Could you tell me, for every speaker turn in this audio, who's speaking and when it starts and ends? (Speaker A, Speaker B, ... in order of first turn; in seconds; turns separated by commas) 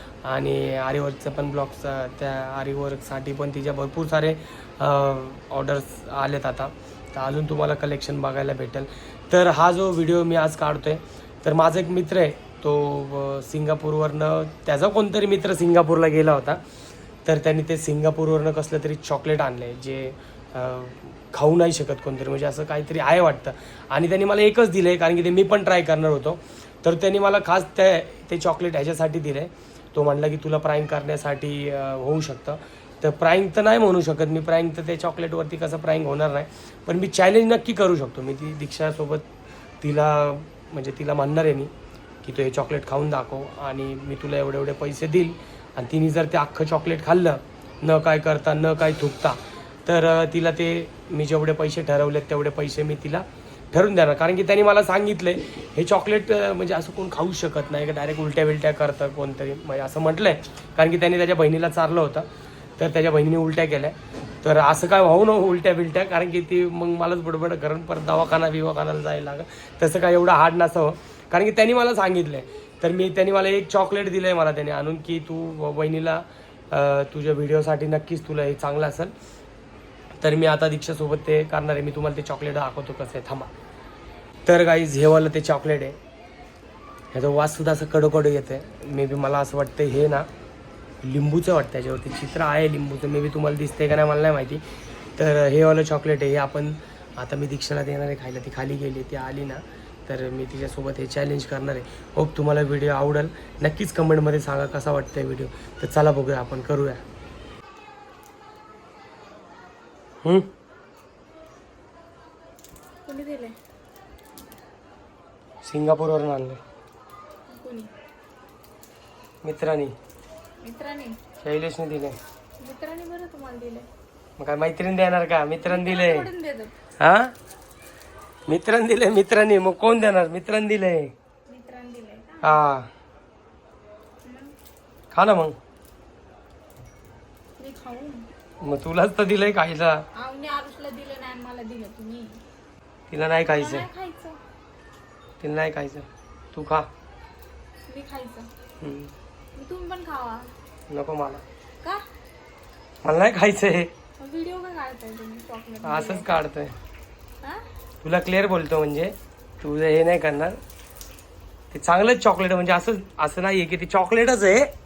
Speaker A: 0.2-16.6, Speaker A: 17.2-39.2, Speaker A: 39.8-41.7, Speaker A: 42.2-62.3, Speaker A: 62.8-79.1, Speaker A: 80.2-83.5, Speaker A: 84.5-86.0, Speaker A: 87.1-90.3, Speaker A: 91.0-94.6, Speaker A: 95.2-107.0, Speaker A: 110.2-110.5, Speaker B: 113.0-113.6, Speaker A: 115.6-116.6, Speaker B: 117.5-117.9, Speaker A: 119.4-119.9, Speaker B: 120.6-121.2, Speaker A: 121.4-122.2, Speaker B: 122.6-123.8, Speaker A: 124.4-126.3, Speaker B: 125.6-126.7, Speaker A: 127.0-127.3, Speaker A: 128.5-131.1, Speaker B: 131.5-132.6, Speaker A: 132.4-132.9, Speaker B: 134.2-134.5, Speaker A: 135.1-135.5, Speaker B: 137.6-138.2, Speaker A: 138.6-140.1, Speaker B: 140.2-142.4, Speaker A: 143.1-143.9, Speaker B: 143.5-144.4, Speaker A: 145.4-146.9, Speaker B: 147.9-148.5, Speaker A: 148.8-149.1, Speaker B: 149.6-150.5, Speaker A: 150.9-151.4, Speaker A: 153.0-153.9, Speaker B: 154.2-156.3, Speaker A: 155.8-156.7, Speaker A: 158.0-160.6, Speaker A: 161.7-164.7